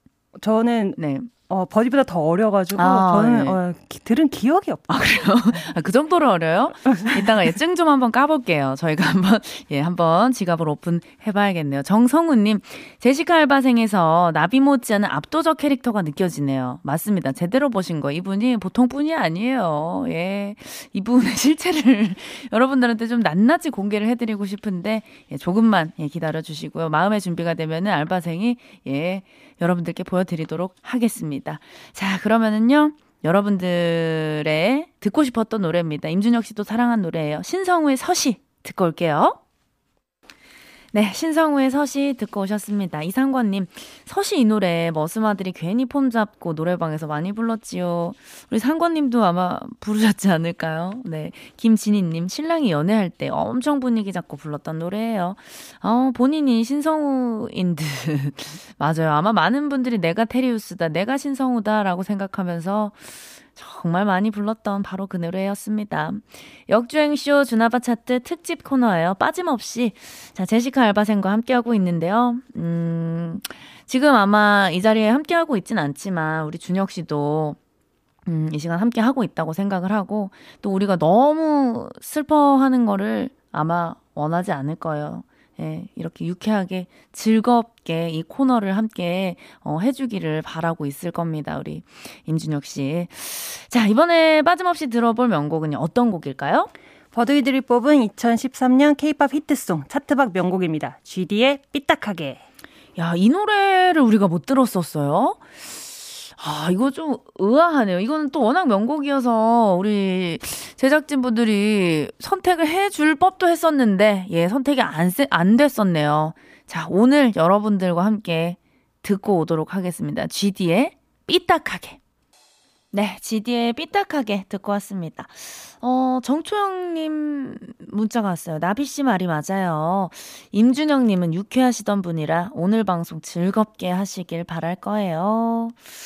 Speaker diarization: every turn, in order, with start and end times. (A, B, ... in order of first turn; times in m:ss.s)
0:00.4-0:01.0 A
0:01.0-0:01.3 B
0:01.5-0:04.9 A
0:02.8-0:03.6 B
0:04.9-0:39.4 B
0:40.9-1:17.6 B
1:18.3-1:36.7 B
1:37.1-1:42.4 A
1:43.0-2:02.0 B
2:02.9-2:15.8 B